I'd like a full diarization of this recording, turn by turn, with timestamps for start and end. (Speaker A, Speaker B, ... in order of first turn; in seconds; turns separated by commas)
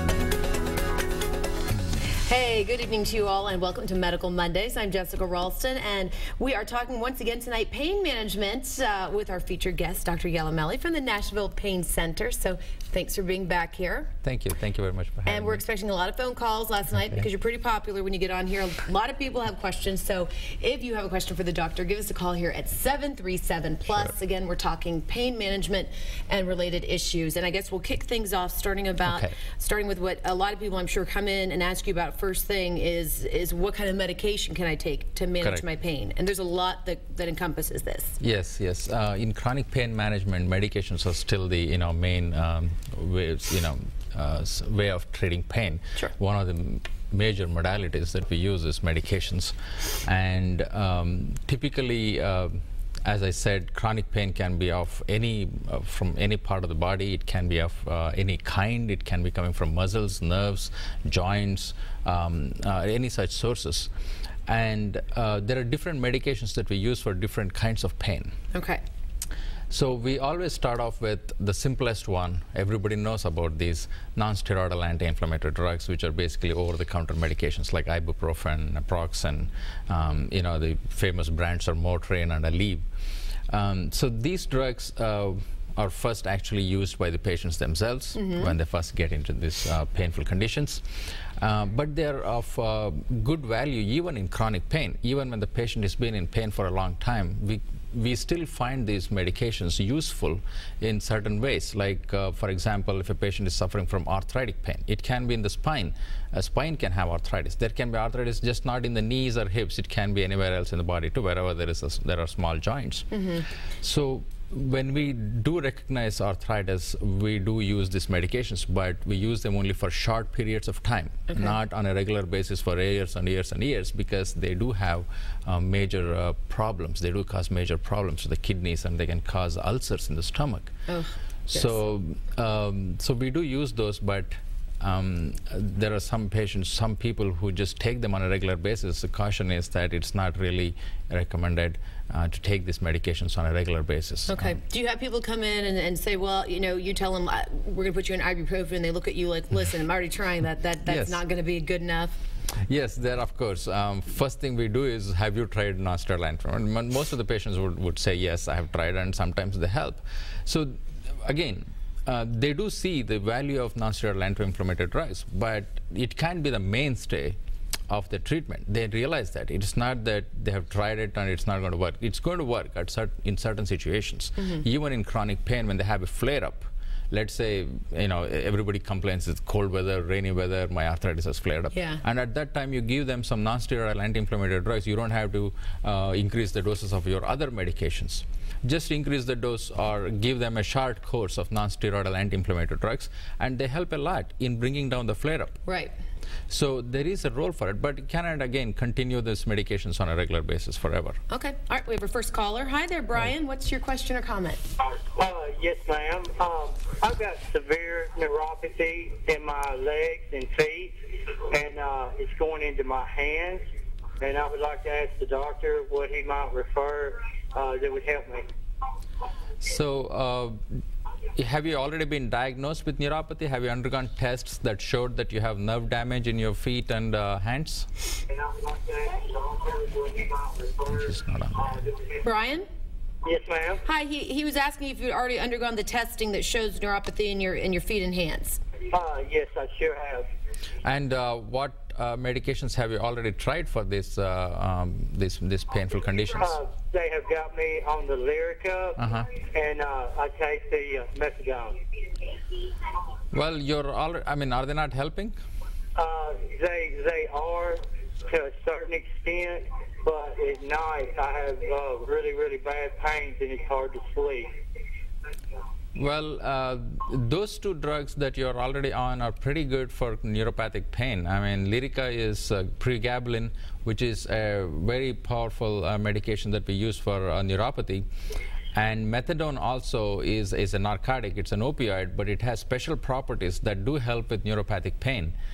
Speaker A: 2.2-14.1, Speaker B: 14.2-15.6, Speaker A: 15.2-38.2, Speaker B: 29.1-29.3, Speaker B: 38.2-63.9, Speaker B: 64.5-68.3, Speaker A: 68.5-68.8, Speaker B: 69.7-82.8, Speaker B: 83.5-90.8, Speaker A: 88.1-88.5, Speaker B: 91.4-113.1, Speaker A: 113.1-113.5, Speaker B: 113.8-130.8, Speaker A: 121.3-121.5, Speaker A: 130.9-131.8, Speaker B: 131.5-144.6, Speaker A: 144.3-152.2, Speaker B: 150.8-151.2, Speaker B: 152.6-167.4, Speaker B: 167.9-195.6, Speaker A: 181.7-182.0, Speaker A: 195.7-195.9, Speaker B: 196.5-201.2, Speaker A: 201.3-204.6, Speaker C: 205.0-213.6, Speaker C: 214.2-218.5, Speaker B: 219.6-220.6, Speaker B: 221.3-227.9, Speaker C: 228.4-230.6, Speaker B: 230.8-231.8, Speaker A: 232.2-232.7, Speaker C: 233.2-233.8, Speaker A: 233.8-238.6, Speaker C: 238.9-240.3, Speaker B: 240.8-246.6, Speaker C: 246.4-251.8, Speaker B: 249.0-249.3, Speaker B: 253.3-255.4, Speaker C: 255.9-264.5, Speaker B: 265.9-278.1, Speaker B: 278.7-285.3